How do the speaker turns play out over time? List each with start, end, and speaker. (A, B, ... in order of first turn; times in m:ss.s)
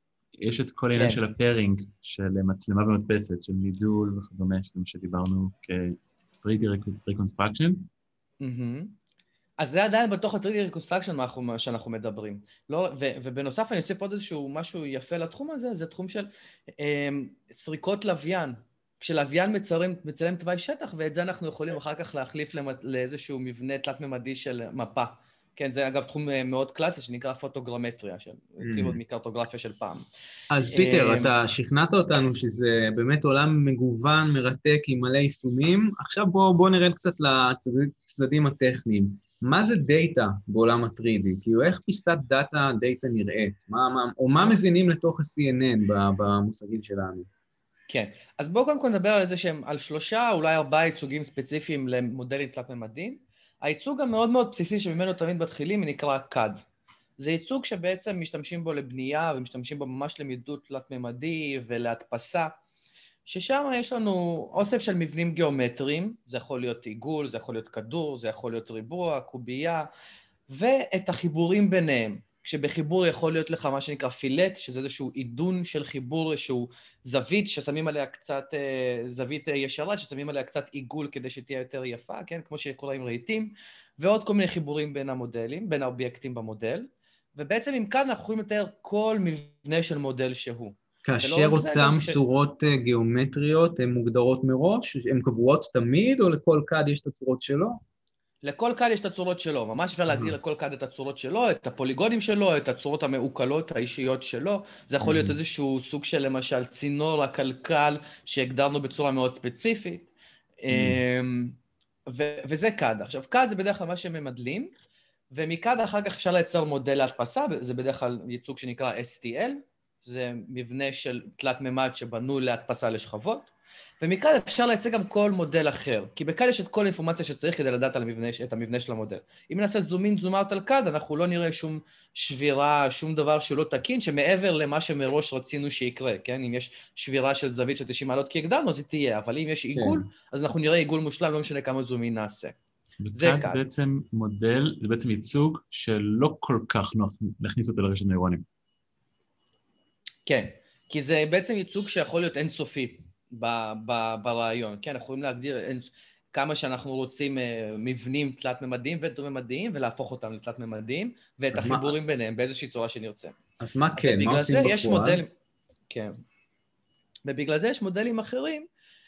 0:00.4-0:07.9 A
0:00.9-0:01.2 B
0:08.4-0:08.9 B
0:09.6-0:30.0 B
0:28.6-0:29.0 C
0:30.5-0:47.3 C
0:30.7-0:31.3 B
0:47.9-0:56.6 B
0:57.2-1:02.5 B
1:03.2-1:09.9 B
1:10.5-1:32.2 B
1:31.0-1:37.8 C
1:38.4-1:50.1 B
1:45.0-1:45.4 C
1:50.6-1:51.6 B
1:50.7-1:51.0 C
1:52.1-1:54.7 B
1:55.3-2:22.5 B
2:19.8-2:20.0 C
2:23.0-2:28.4 A
2:23.1-2:23.6 B
2:30.2-2:43.4 B
2:41.5-2:41.9 C
2:43.6-2:45.2 C
2:43.9-2:45.3 B
2:47.2-2:48.7 B